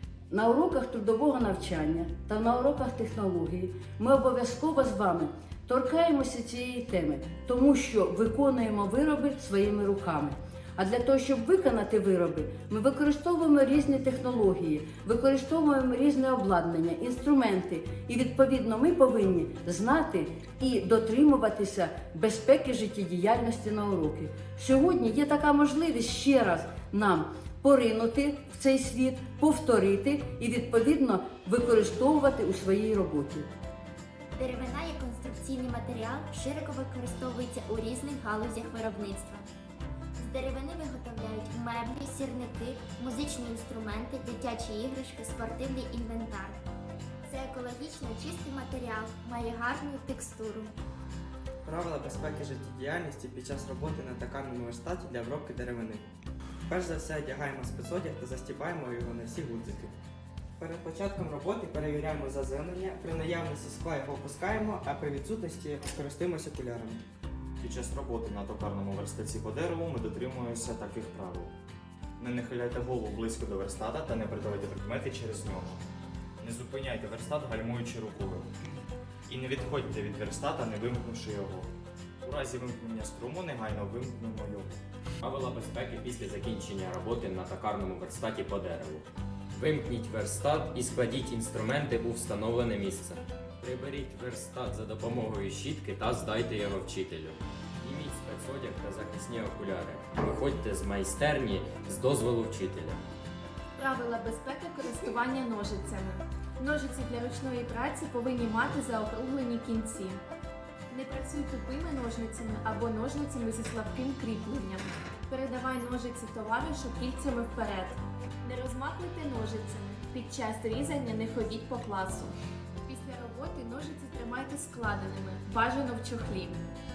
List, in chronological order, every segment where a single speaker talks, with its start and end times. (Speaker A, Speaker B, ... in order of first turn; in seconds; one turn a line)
Speaker A: 0.3-33.5
Speaker B: 34.3-39.5
Speaker B: 40.2-46.6
Speaker B: 47.2-50.8
Speaker C: 51.6-56.1
Speaker C: 56.7-60.0
Speaker C: 60.6-67.0
Speaker D: 67.6-71.5
Speaker D: 72.2-75.8
Speaker D: 76.4-78.5
Speaker D: 79.3-81.7
Speaker D: 82.2-84.8
Speaker E: 85.2-103.0
Speaker F: 103.8-110.2
Speaker F: 110.9-122.3
Speaker F: 122.9-126.6